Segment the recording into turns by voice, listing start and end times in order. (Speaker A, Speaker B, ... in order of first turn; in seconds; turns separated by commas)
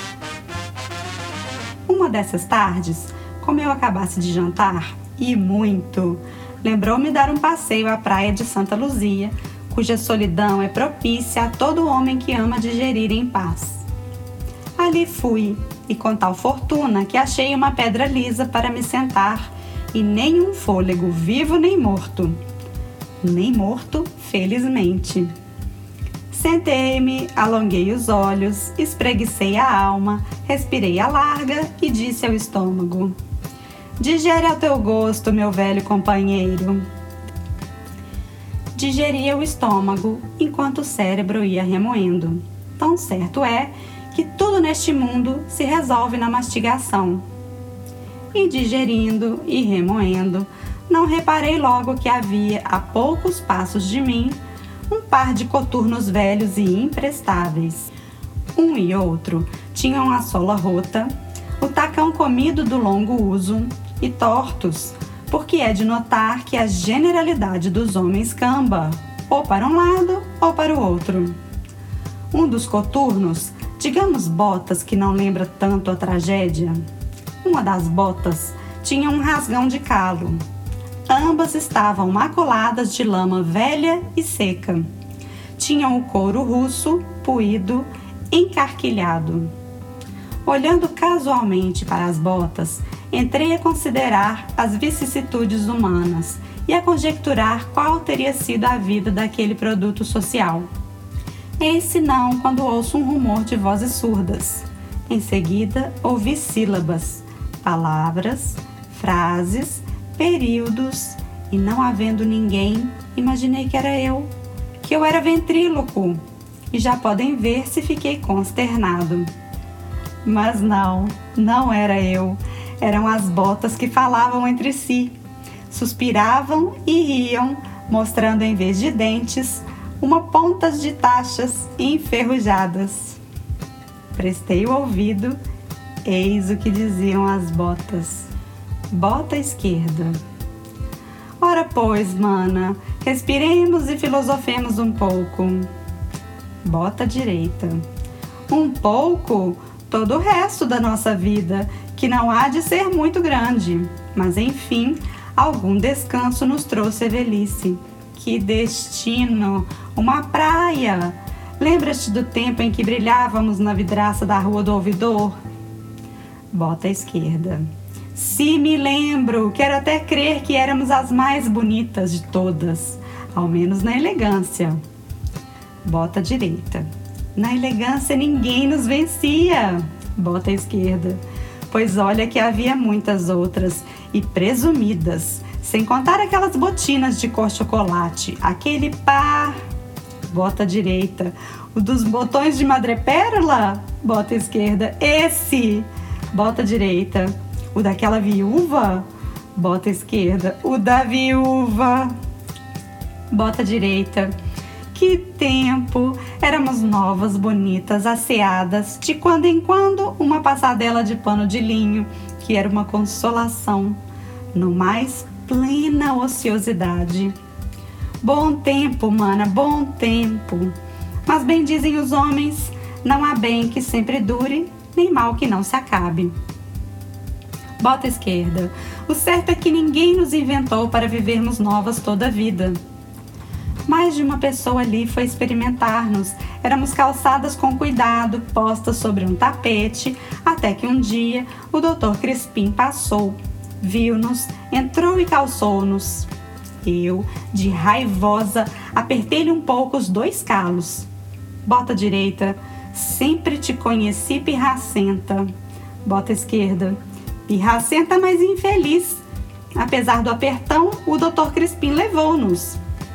Speaker A: 1.9-13.8, Speaker A: 14.8-22.4, Speaker A: 23.2-25.3, Speaker A: 26.3-33.1, Speaker A: 34.0-36.8, Speaker A: 38.7-47.2, Speaker A: 48.3-54.4, Speaker A: 54.9-57.9, Speaker A: 58.5-71.3, Speaker A: 72.3-76.8, Speaker A: 77.4-80.4, Speaker A: 81.1-84.9, Speaker A: 85.6-89.5, Speaker A: 90.4-100.7, Speaker A: 101.6-119.3, Speaker A: 120.2-125.2, Speaker A: 125.7-133.2, Speaker A: 134.1-135.4, Speaker A: 136.0-138.3, Speaker A: 138.9-140.2, Speaker A: 141.4-145.7, Speaker A: 146.6-147.8, Speaker A: 148.5-165.3, Speaker A: 166.5-174.8, Speaker A: 175.8-189.6, Speaker A: 190.3-202.1, Speaker A: 203.3-204.3, Speaker A: 204.9-214.0, Speaker A: 214.5-217.3, Speaker A: 218.2-220.7, Speaker A: 221.2-226.3, Speaker A: 227.8-232.8, Speaker A: 233.9-246.3, Speaker A: 246.8-251.1, Speaker A: 251.6-255.5, Speaker A: 256.0-259.2, Speaker A: 259.7-262.8